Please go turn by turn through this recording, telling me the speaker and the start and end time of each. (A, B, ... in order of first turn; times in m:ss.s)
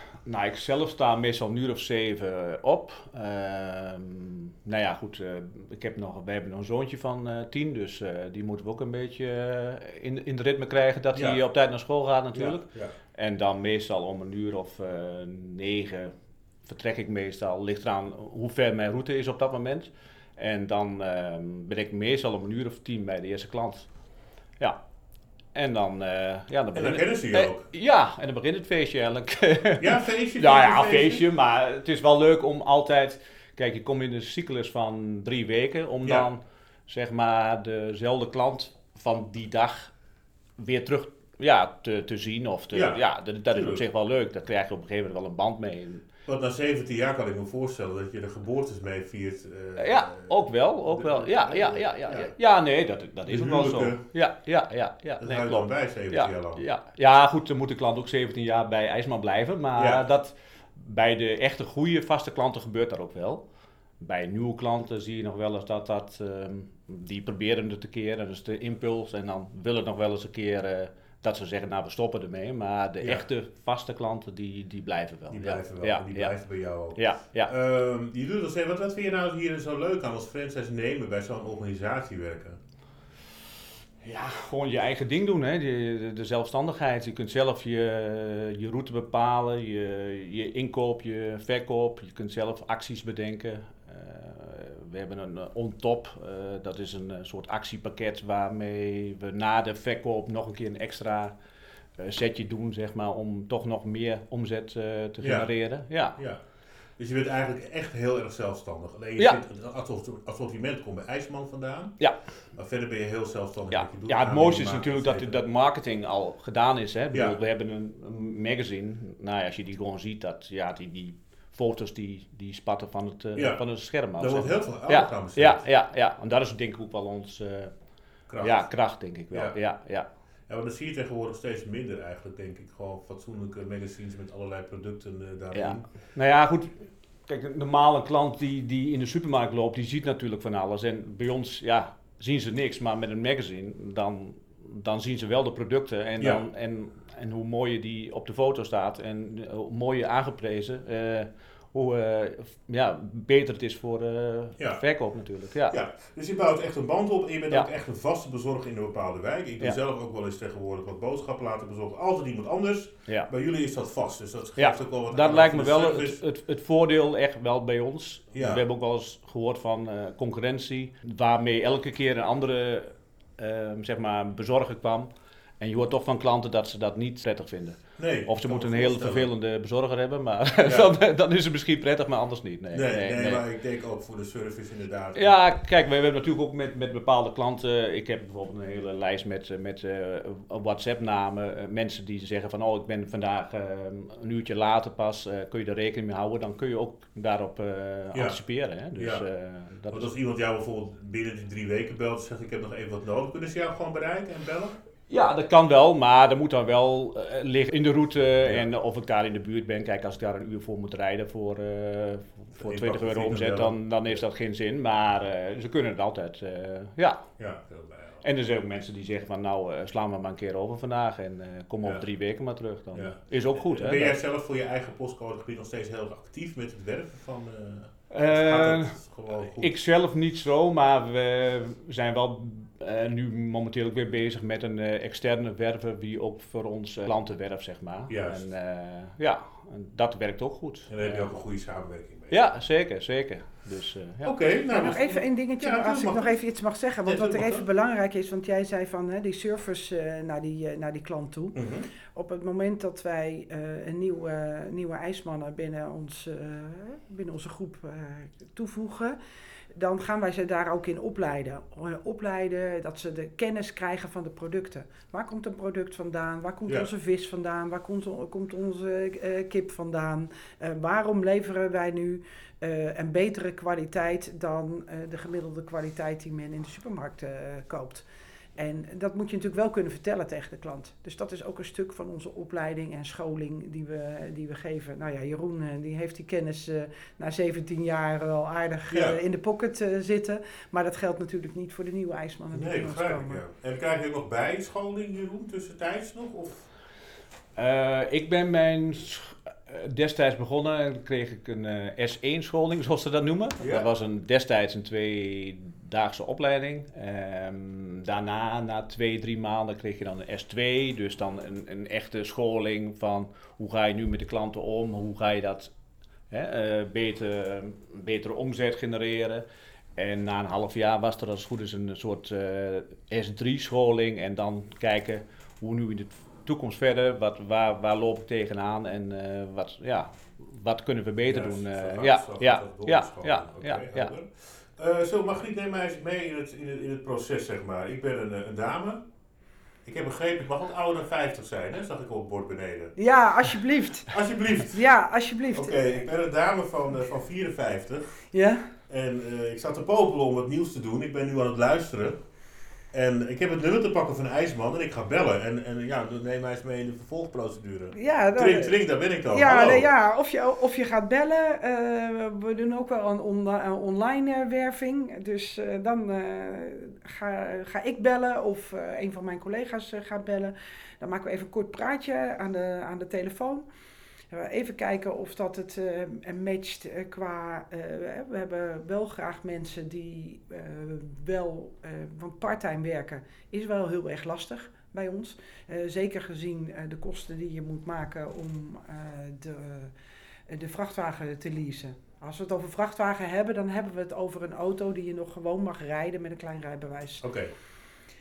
0:00.2-0:16.1 A
0:11.1-0:11.4 B
0:12.3-0:12.9 B
0:16.6-0:23.9 A
0:25.5-0:39.9 A
0:26.7-0:27.6 B
0:29.8-0:31.2 B
0:40.6-0:46.0 A
0:42.7-0:43.0 B
0:43.5-0:43.8 B
0:46.3-0:52.3 B
0:49.8-1:03.4 A
0:53.3-0:54.0 B
0:55.2-0:56.6 B
0:59.8-1:00.0 B
1:04.0-1:16.4 A
1:15.3-1:22.6 B
1:16.9-1:17.5 A
1:24.0-1:41.3 A
1:42.0-1:46.2 A
1:45.2-1:45.5 B
1:47.0-1:52.0 B
1:52.5-1:55.4 B
1:53.7-2:07.7 A
2:03.4-2:03.6 B
2:04.2-2:05.6 B
2:08.3-2:08.6 B
2:08.4-2:10.0 A
2:10.5-2:15.8 B
2:15.5-2:35.8 A
2:35.7-2:46.2 B
2:44.6-3:03.4 A
2:48.3-2:48.6 B
2:58.0-2:59.3 B
3:00.6-3:00.9 B
3:02.7-3:05.3 B
3:05.2-3:20.1 A
3:18.1-3:18.4 B
3:19.0-3:19.2 B
3:19.9-3:24.8 B
3:25.1-3:37.3 A
3:28.4-3:28.7 B
3:32.6-3:34.2 B
3:37.4-3:38.2 B
3:38.2-3:44.1 A
3:42.9-3:49.7 B
3:48.1-4:01.3 A
3:58.1-3:58.5 B
4:00.9-4:02.4 B
4:02.3-4:04.4 A
4:04.2-4:06.4 B
4:04.7-4:19.2 C
4:07.0-4:07.6 B
4:11.5-4:11.9 B
4:19.7-4:38.0 C
4:38.6-4:53.4 C
4:48.9-4:49.2 B
4:52.5-4:56.7 B
4:57.6-5:15.7 A
5:03.6-5:03.9 B
5:16.3-5:19.4 A
5:20.0-5:34.1 A
5:31.3-5:39.0 B
5:39.8-5:42.9 B
5:43.0-5:45.8 C
5:44.1-5:44.9 B
5:45.5-5:48.2 B
5:48.3-5:48.7 C
5:48.9-5:52.2 B
5:52.9-5:59.9 B
5:57.9-5:58.8 C
5:59.3-6:13.6 C
6:14.3-6:29.9 C
6:30.5-6:37.2 C
6:37.2-6:37.5 B